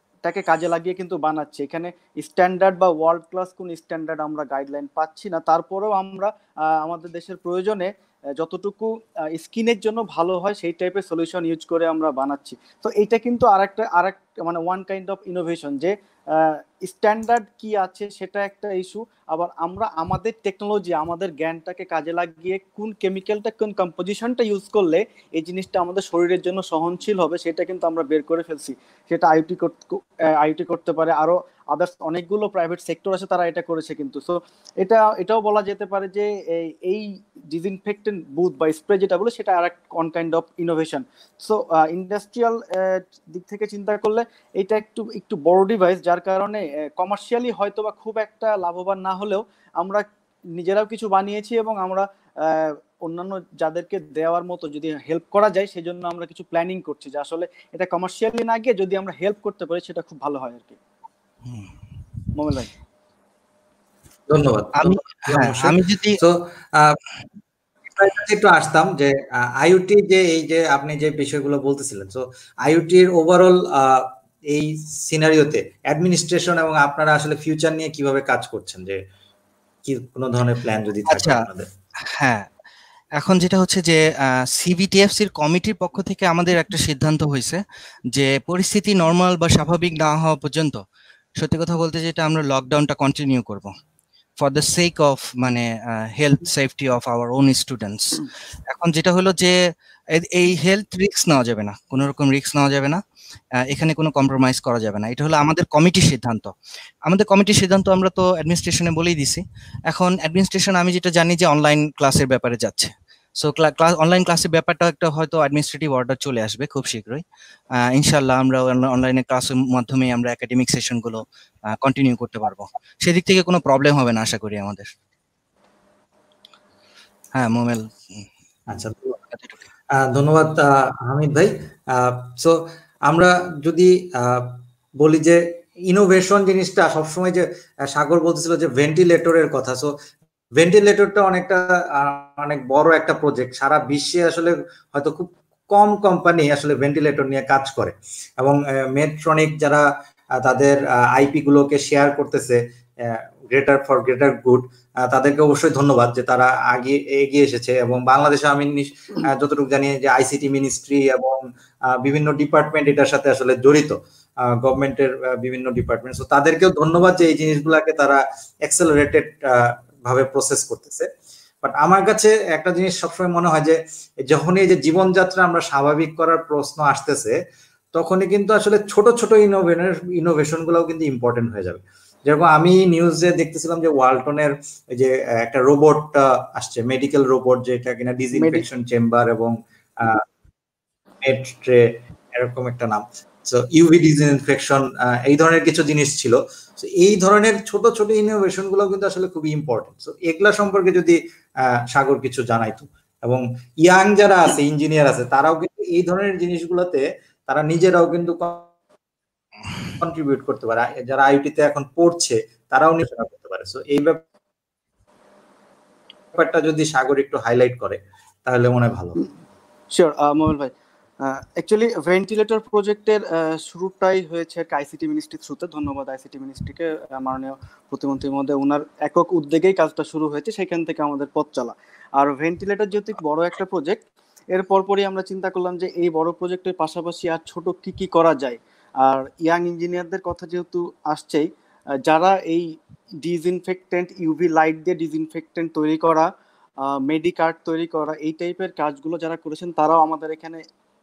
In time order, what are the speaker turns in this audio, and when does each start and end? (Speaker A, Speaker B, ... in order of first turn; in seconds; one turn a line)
Speaker A: 0.2-60.8
Speaker A: 62.3-62.7
Speaker B: 64.3-67.0
Speaker C: 64.7-66.2
Speaker B: 67.9-79.0
Speaker B: 79.8-81.7
Speaker C: 81.1-81.4
Speaker C: 82.1-82.5
Speaker C: 83.2-87.6
Speaker C: 88.1-90.8
Speaker C: 91.4-93.7
Speaker C: 94.4-99.5
Speaker C: 100.1-103.0
Speaker C: 103.6-106.5
Speaker C: 107.0-117.2
Speaker C: 117.8-124.9
Speaker C: 127.3-128.3
Speaker B: 128.7-129.1
Speaker C: 129.3-129.7
Speaker B: 130.0-139.9
Speaker B: 140.6-149.8
Speaker B: 150.4-171.1
Speaker B: 171.6-177.4
Speaker B: 177.9-190.2
Speaker A: 188.3-188.6
Speaker B: 191.2-201.2
Speaker B: 201.9-208.7
Speaker B: 210.0-214.2
Speaker B: 216.3-219.2
Speaker A: 219.9-241.5
Speaker A: 242.1-246.3
Speaker A: 246.8-250.6